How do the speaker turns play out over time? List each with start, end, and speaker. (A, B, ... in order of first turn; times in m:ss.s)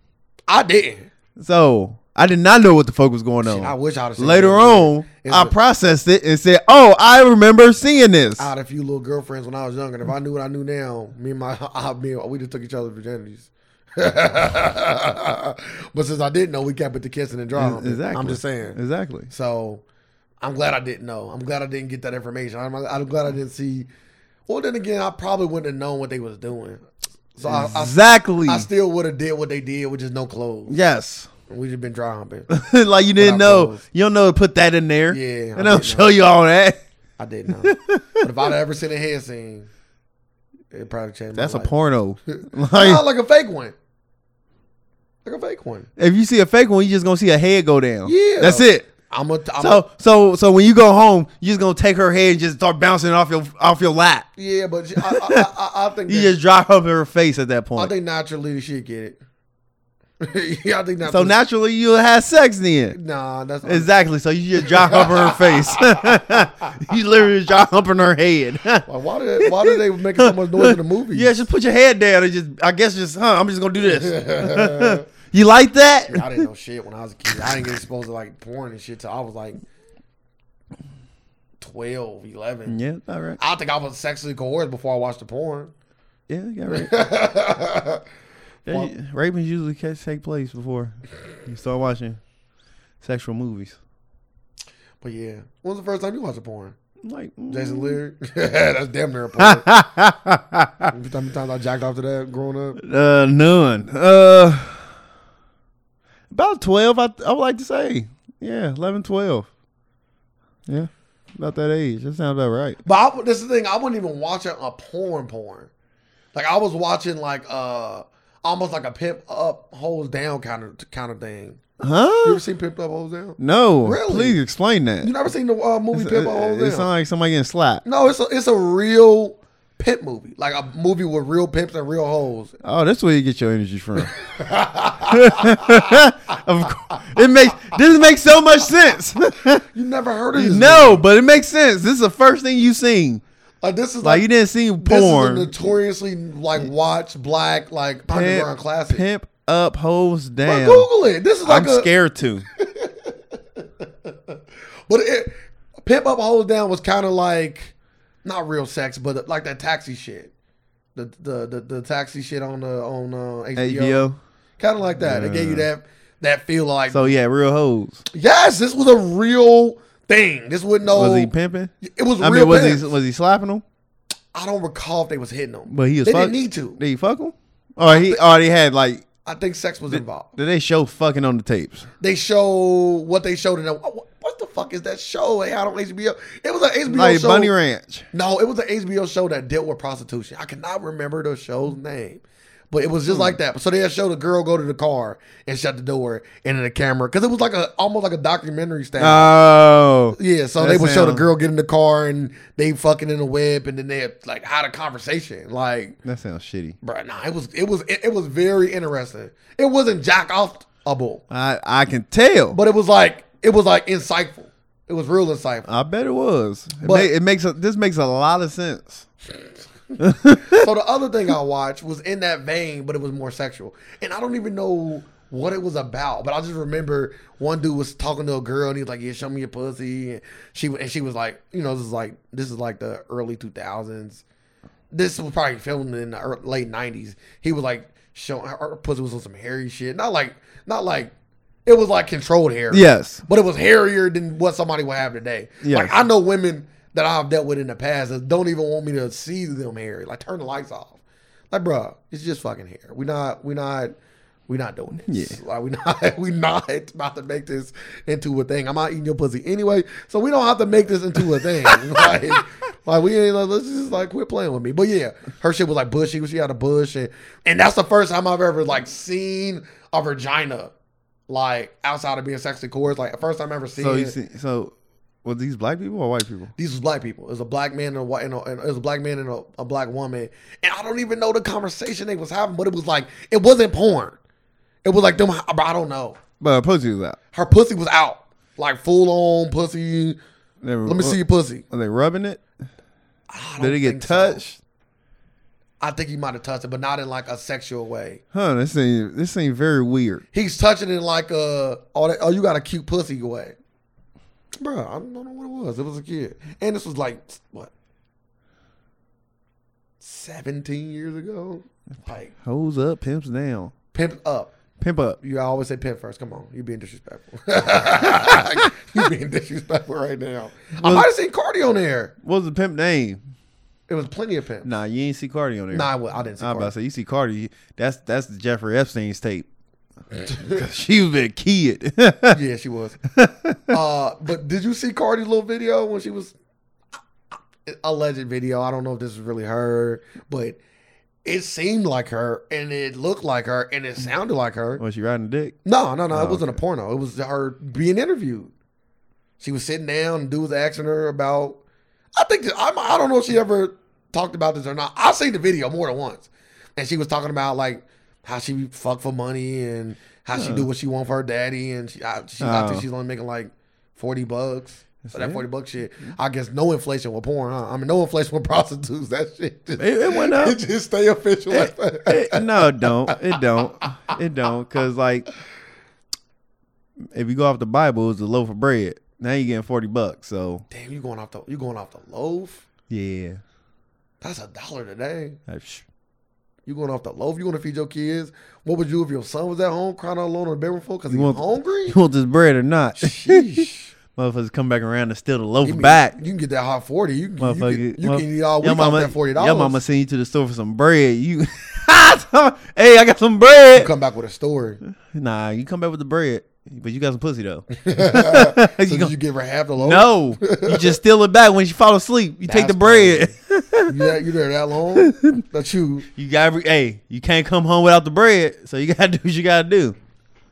0:00.5-0:01.1 A
0:01.4-0:08.5 B
0:03.4-0:05.5 A
0:08.4-0:18.8 A
0:17.5-0:19.3 B
0:19.3-0:19.8 A
0:20.4-0:23.9 A
0:24.5-0:30.8 A
0:27.4-0:28.7 B
0:30.7-0:31.3 B
0:31.5-0:32.5 A
0:32.5-0:36.8 B
0:33.2-0:33.8 A
0:35.1-0:36.1 A
0:37.2-0:39.7 A
0:37.6-0:38.3 B
0:40.7-0:41.7 A
0:41.3-0:43.0 B
0:42.4-0:43.7 A
0:45.2-0:45.9 A
0:46.0-0:48.9 B
0:48.0-0:49.8 A
0:49.6-0:54.3 B
0:54.4-0:56.3 A
0:55.0-0:55.5 B
0:56.1-0:57.9 B
0:57.8-0:59.2 A
1:00.2-1:01.4 A
1:01.0-1:03.0 B
1:02.9-1:03.9 A
1:03.6-1:08.8 B
1:04.6-1:06.4 A
1:08.8-1:11.4 A
1:09.4-1:16.4 B
1:13.8-1:15.0 A
1:16.1-1:19.6 A
1:21.6-1:22.8 A
1:22.7-1:23.4 B
1:23.4-1:25.7 A
1:26.3-1:27.0 B
1:26.7-1:28.0 A
1:28.6-1:32.2 B
1:33.0-1:33.8 B
1:35.0-1:36.7 A
1:37.0-1:38.0 B
1:37.5-1:39.7 A
1:39.4-1:40.9 B
1:40.9-1:42.8 A
1:42.8-1:44.9 B
1:46.3-1:49.5 B
1:50.7-1:52.8 B
1:52.8-1:55.7 A
1:56.3-2:01.6 A
2:01.8-2:02.4 B
2:02.2-2:04.4 A
2:03.4-2:05.1 B
2:05.0-2:06.9 A
2:05.9-2:07.8 B
2:07.8-2:12.5 A
2:12.6-2:14.2 B
2:14.0-2:16.0 A
2:15.1-2:19.6 B
2:19.7-2:21.0 A
2:20.3-2:23.2 B
2:23.6-2:24.3 A
2:24.0-2:25.7 B
2:24.8-2:29.0 A
2:28.1-2:30.9 B
2:30.4-2:31.9 A
2:31.4-2:32.4 B
2:32.6-2:40.3 A
2:40.9-2:44.1 A
2:43.6-2:44.2 B
2:44.6-2:47.1 A
2:45.0-2:45.7 B
2:46.9-2:48.0 B
2:48.1-2:52.9 A
2:50.8-2:53.6 B
2:54.3-2:56.8 A
2:55.7-2:59.0 B
2:57.8-2:58.2 A
2:59.2-3:00.3 A
2:59.9-3:01.9 B
3:02.0-3:07.5 A
3:06.9-3:08.1 B
3:08.1-3:19.3 A
3:13.1-3:13.4 B
3:19.0-3:21.3 B
3:20.2-3:26.0 A
3:26.0-3:26.8 B
3:26.8-3:31.2 A
3:31.3-3:32.6 B
3:32.5-3:35.7 A
3:35.6-3:39.1 B
3:36.8-3:37.1 A
3:40.0-3:40.7 B
3:40.4-3:54.2 A
3:54.9-4:01.1 A
4:01.6-4:11.0 A
4:02.7-4:03.2 B
4:05.6-4:06.0 B
4:11.5-4:13.9 A
4:14.5-4:30.7 A
4:15.0-4:15.4 B
4:21.4-4:22.2 B
4:31.3-4:34.1 A
4:33.8-4:34.7 B
4:35.2-4:36.5 B
4:36.6-4:44.2 A
4:44.8-4:46.2 A
4:46.4-4:47.2 B
4:47.3-4:50.2 A
4:50.6-4:51.2 B
4:50.8-4:51.6 A
4:51.7-4:52.4 B
4:53.3-4:54.4 A
4:53.6-4:54.6 B
4:55.8-4:58.2 A
4:58.3-5:00.2 B
5:00.3-5:03.6 A
5:04.6-5:07.7 A
5:10.0-5:12.3 A
5:12.4-5:13.7 B
5:13.9-5:14.5 A
5:14.8-5:15.2 B
5:15.2-5:22.1 A
5:20.8-5:21.1 B
5:22.2-5:23.2 B
5:23.9-5:24.7 A
5:24.6-5:29.4 B
5:25.7-5:26.7 A
5:30.3-5:30.6 A
5:30.4-5:32.4 B
5:32.3-5:33.0 A
5:33.1-5:33.7 B
5:33.7-5:36.3 A
5:37.6-5:40.6 A
5:41.2-5:44.8 A
5:44.8-5:45.6 B
5:45.6-5:48.5 A
5:46.1-5:46.6 B
5:49.4-5:51.6 A
5:52.2-6:13.4 A
6:00.3-6:00.7 B
6:02.4-6:02.8 B
6:05.0-6:05.4 B
6:09.8-6:10.6 B
6:11.5-6:15.3 B
6:17.1-6:20.6 B
6:20.7-6:22.6 A
6:22.9-6:23.4 B
6:24.2-6:25.4 A
6:25.5-6:25.8 B
6:26.6-6:32.0 A
6:31.1-6:36.2 B
6:33.0-6:33.9 A
6:35.6-6:39.8 A
6:37.4-6:43.9 B
6:43.7-6:44.8 A
6:44.9-6:49.1 B
6:47.7-6:50.9 A
6:49.8-6:54.1 B
6:52.4-6:53.3 A
6:53.9-6:56.1 A
6:54.9-6:55.4 B
6:56.1-6:59.9 B